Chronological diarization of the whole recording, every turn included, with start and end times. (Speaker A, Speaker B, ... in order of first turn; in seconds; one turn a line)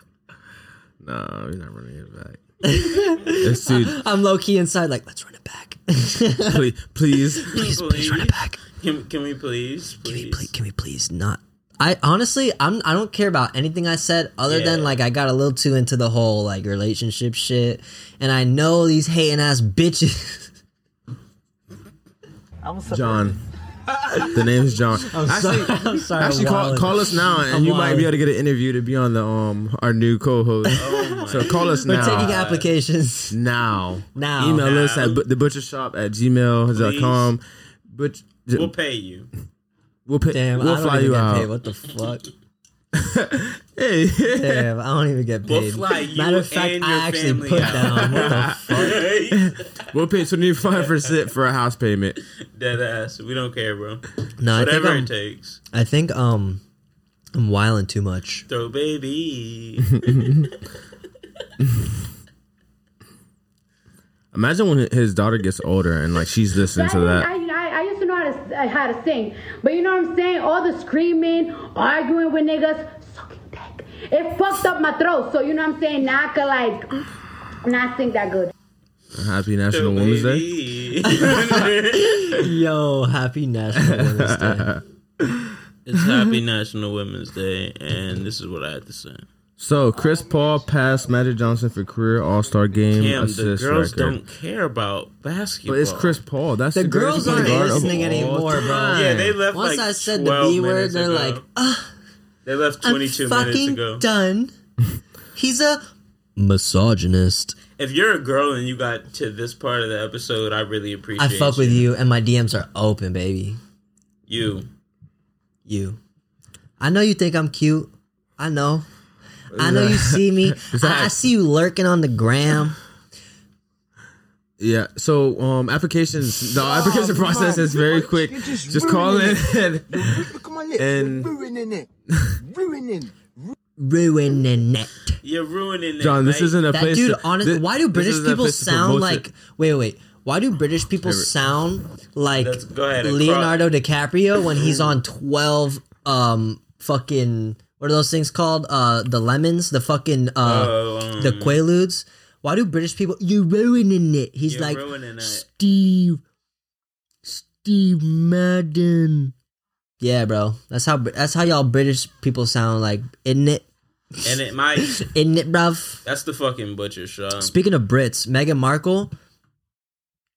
Speaker A: 1.0-2.4
Speaker B: 2.6-8.6
Speaker A: 3.4-4.0
Speaker A: 6.5-7.5
Speaker C: 7.5-10.5
Speaker B: 10.0-20.5
Speaker C: 14.5-15.0
Speaker D: 22.6-24.7
Speaker A: 22.9-23.4
Speaker A: 24.3-32.5
Speaker B: 25.1-28.1
Speaker B: 30.7-33.4
Speaker C: 30.7-32.7
Speaker A: 33.3-38.7
Speaker B: 34.1-34.7
Speaker C: 34.6-35.2
Speaker C: 36.7-37.3
Speaker C: 38.5-39.3
Speaker A: 40.1-41.5
Speaker B: 40.3-42.2
Speaker A: 42.9-44.7
Speaker B: 44.3-48.7
Speaker C: 45.5-49.9
Speaker A: 48.0-52.2
Speaker C: 50.8-51.2
Speaker C: 52.4-55.6
Speaker B: 54.4-55.1
Speaker B: 55.7-56.6
Speaker B: 57.3-58.5
Speaker C: 58.5-60.5
Speaker A: 64.3-67.3
Speaker E: 66.7-76.9
Speaker E: 77.6-78.5
Speaker A: 79.1-80.4
Speaker C: 79.7-82.5
Speaker B: 81.1-84.7
Speaker A: 83.8-86.3
Speaker C: 85.8-89.2
Speaker A: 89.6-94.2
Speaker D: 89.9-91.7
Speaker C: 92.9-96.2
Speaker A: 95.7-99.4
Speaker B: 96.7-101.9
Speaker C: 97.2-98.0
Speaker C: 98.9-101.4
Speaker C: 102.4-104.0
Speaker B: 102.8-104.5
Speaker B: 105.3-105.8
Speaker B: 106.4-107.5
Speaker C: 107.8-111.8
Speaker B: 111.2-113.6
Speaker C: 114.3-114.7
Speaker B: 115.7-116.0
Speaker B: 116.8-118.8
Speaker A: 119.5-121.1
Speaker B: 119.5-122.8
Speaker A: 124.6-131.3
Speaker D: 126.5-133.5
Speaker B: 133.8-135.2
Speaker C: 135.2-136.6
Speaker A: 136.0-139.3
Speaker B: 136.7-156.2
Speaker C: 142.4-143.7
Speaker C: 150.4-151.6
Speaker C: 154.5-155.4
Speaker B: 157.2-159.3
Speaker B: 160.0-163.7
Speaker B: 164.2-166.0
Speaker C: 164.2-165.1
Speaker C: 166.0-167.5
Speaker B: 167.4-169.1